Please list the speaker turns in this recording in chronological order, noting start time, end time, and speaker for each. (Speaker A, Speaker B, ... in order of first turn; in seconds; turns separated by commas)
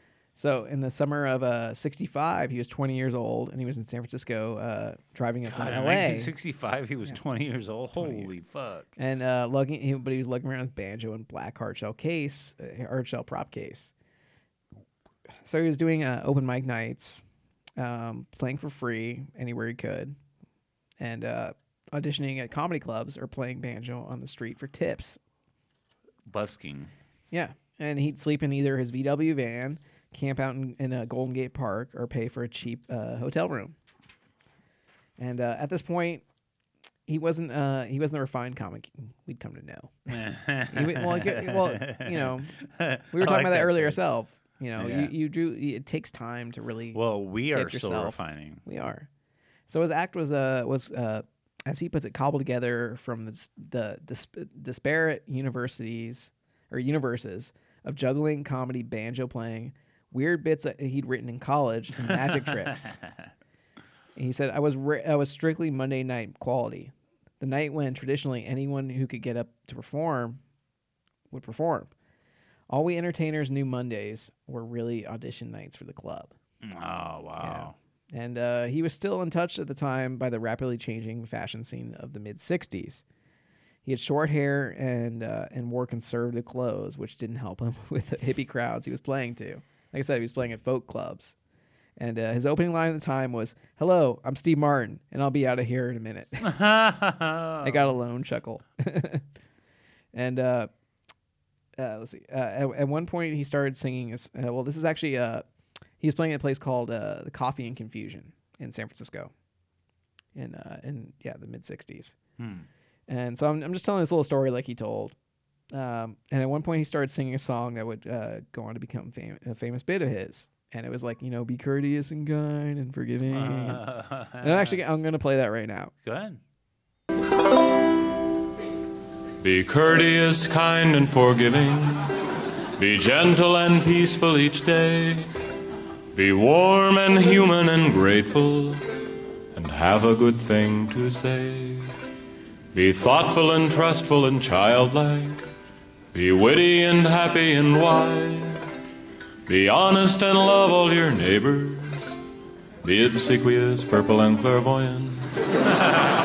Speaker A: 0.3-6.3, Speaker B: 5.5-8.9, Speaker A: 8.0-8.3, Speaker A: 9.0-13.9, Speaker A: 15.4-17.2, Speaker A: 17.8-20.1, Speaker A: 21.0-25.2, Speaker B: 26.3-26.9, Speaker A: 27.3-33.8, Speaker A: 35.2-36.2, Speaker A: 37.1-40.2, Speaker B: 40.1-44.0, Speaker A: 40.7-42.5, Speaker A: 43.1-47.0, Speaker B: 44.8-45.1, Speaker B: 46.9-48.6, Speaker A: 47.5-49.1, Speaker A: 49.7-63.0, Speaker A: 64.2-70.4, Speaker A: 71.3-71.9, Speaker A: 72.7-76.3, Speaker B: 76.6-77.7, Speaker A: 77.4-83.0, Speaker A: 83.8-91.3, Speaker A: 92.0-96.6, Speaker B: 96.4-97.8, Speaker A: 97.6-99.2, Speaker A: 100.1-100.7, Speaker A: 101.8-105.4, Speaker A: 106.0-109.3, Speaker A: 110.3-112.2, Speaker B: 112.4-112.7, Speaker A: 113.1-115.1, Speaker A: 115.7-123.8, Speaker B: 123.3-124.8, Speaker A: 124.4-125.9, Speaker B: 126.0-126.4, Speaker C: 129.4-132.1, Speaker C: 132.8-135.3, Speaker C: 136.1-138.8, Speaker C: 139.5-141.9, Speaker C: 142.7-145.4, Speaker C: 146.1-148.7, Speaker C: 149.5-152.1, Speaker C: 152.8-155.2